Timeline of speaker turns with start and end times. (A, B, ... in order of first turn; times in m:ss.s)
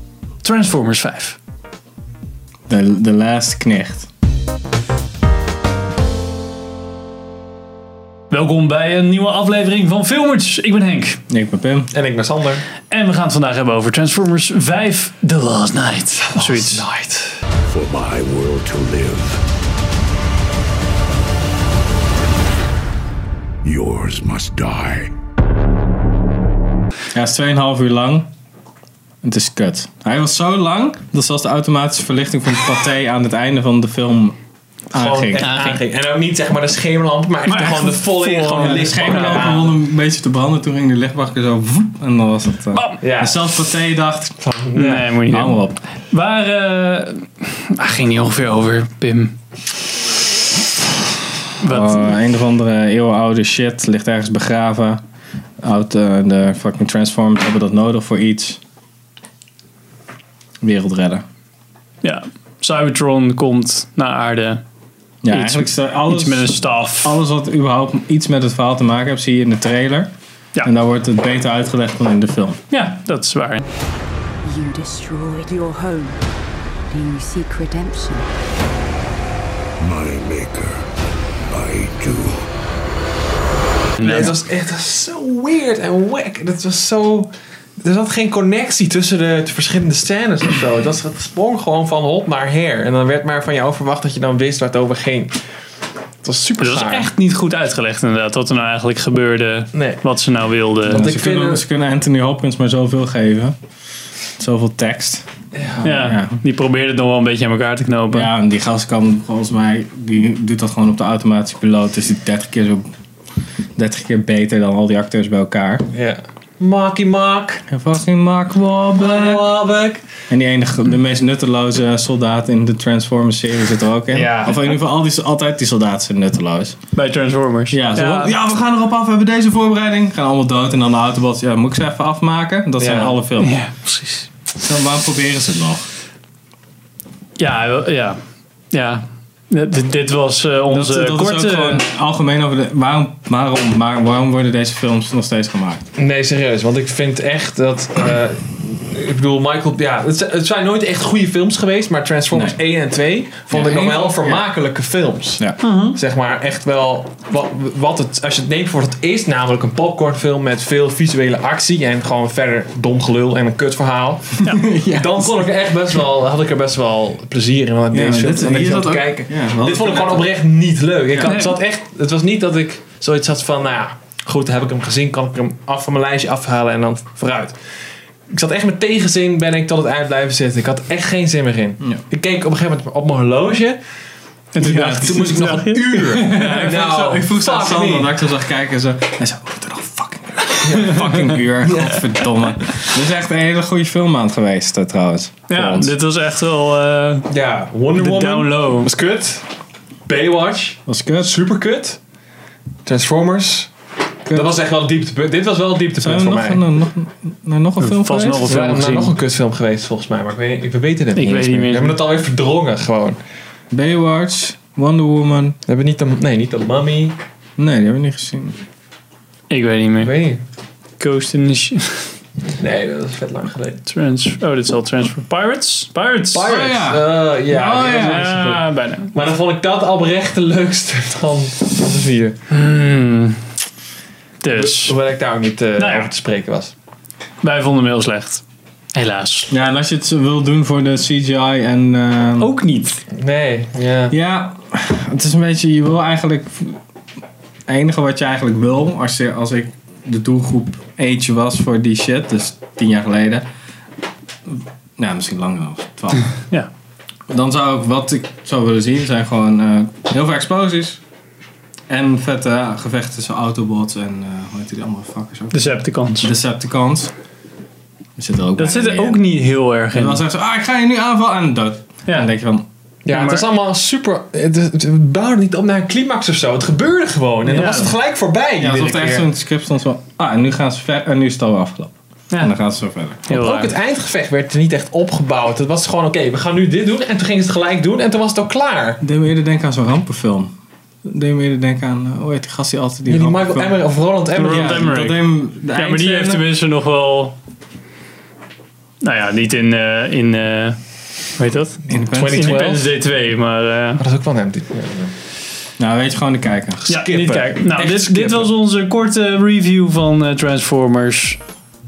0:00.4-0:01.4 A
0:02.7-0:04.1 B
0:08.3-0:11.2 A
0:11.3-0:11.9 B
0:11.9-0:12.6 C
0:12.9-0:16.8 A
0:16.3-0:17.4 C
0:17.7-0:19.4 D
0:23.6-0:25.1 D
0:27.1-0:28.3 B
0:29.2-0:34.4 B
0:34.9-0:35.6 B
0:34.9-0:39.8 C
0:35.4-0:35.8 A
0:37.5-0:39.5 A
0:38.6-0:44.4 B
0:43.0-0:43.4 C
0:44.4-0:45.1 C
0:44.8-0:49.4 A
0:45.3-0:45.8 B
0:51.6-0:52.2 A
0:51.7-0:55.0 B
0:55.6-0:58.6 B
1:00.6-1:01.2 B
1:02.0-1:04.6 A
1:05.2-1:10.1 B
1:05.3-1:07.2 A
1:10.6-1:12.6 B
1:12.7-1:13.6 A
1:14.4-1:16.2 E
1:16.9-1:18.3 E
1:19.8-1:20.8 D
1:21.5-1:22.5 D
1:24.0-1:24.3 A
1:24.0-1:35.4 C
1:36.2-1:37.1 C
1:36.6-1:41.0 A
1:39.7-1:40.0 C
1:40.8-1:41.6 C
1:40.9-1:43.6 B
1:44.4-1:46.4 B
1:45.6-1:45.8 C
1:45.8-1:48.3 A
1:48.1-1:52.9 B
1:53.8-1:55.9 B
1:55.9-1:57.6 C
1:57.7-1:59.5 B
1:59.0-2:00.0 C
2:00.3-2:06.8 B
2:04.1-2:04.7 C
2:06.9-2:08.4 A
2:07.7-2:13.6 B
2:12.8-2:13.2 C
2:13.4-2:14.3 A
2:14.6-2:15.9 B
2:17.4-2:18.2 A
2:18.7-2:21.8 A
2:20.7-2:25.8 B
2:26.0-2:57.6 C
2:32.3-2:32.6 B
2:33.5-2:34.4 B
2:35.6-2:36.0 A
2:44.6-2:45.4 B
2:47.9-2:50.3 B
2:51.2-2:51.6 A
2:58.3-3:03.8 C
3:04.5-3:07.0 A
3:04.6-3:05.4 B
3:04.6-3:08.1 C
3:06.0-3:15.9 B
3:10.6-3:12.0 C
3:15.5-3:17.3 A
3:17.3-3:19.5 C
3:18.0-3:18.9 A
3:20.1-3:22.0 C
3:20.9-3:21.4 B
3:22.9-3:23.7 C
3:24.3-3:24.5 B
3:24.3-3:26.6 C
3:26.0-3:28.5 B
3:27.8-3:29.2 A
3:28.4-3:33.2 C
3:31.2-3:32.0 A
3:33.7-3:35.6 B
3:35.7-3:37.2 C
3:37.6-3:38.6 B
3:39.5-3:40.1 A
3:40.0-3:40.4 C
3:41.0-3:42.1 A
3:42.6-3:43.8 C
3:43.8-3:46.5 A
3:46.3-3:52.4 C
3:46.5-3:48.4 B
3:47.9-3:49.1 A
3:52.5-3:53.4 A
3:54.4-3:55.0 A
3:54.5-3:56.7 C
3:55.8-3:56.1 A
3:57.4-3:58.4 A
3:58.9-3:59.5 A
3:59.5-4:02.5 B
4:02.4-4:03.0 A
4:03.2-4:04.1 C
4:04.1-4:06.8 B
4:07.7-4:13.5 B
4:14.5-4:16.3 B
4:17.3-4:21.0 B
4:21.9-4:25.7 B
4:25.5-4:26.3 A
4:26.2-4:27.1 B
4:28.2-4:29.2 B
4:28.6-4:30.2 A
4:29.9-4:32.7 B
4:33.0-4:39.3 C
4:33.1-4:33.5 A
4:37.5-4:38.0 A
4:38.6-4:43.3 B
4:43.3-4:43.7 A
4:43.3-4:49.0 C
4:49.0-4:50.5 B
4:51.0-4:53.8 B
4:53.1-4:54.9 C
4:54.3-4:55.2 A
4:54.4-4:56.4 B
4:55.7-4:57.4 A
4:59.0-5:00.8 A
5:01.4-5:04.0 A
5:01.9-5:02.6 B
5:02.1-5:02.9 C
5:04.0-5:05.1 C
5:05.8-5:06.8 B
5:06.9-5:08.5 C
5:06.9-5:11.4 A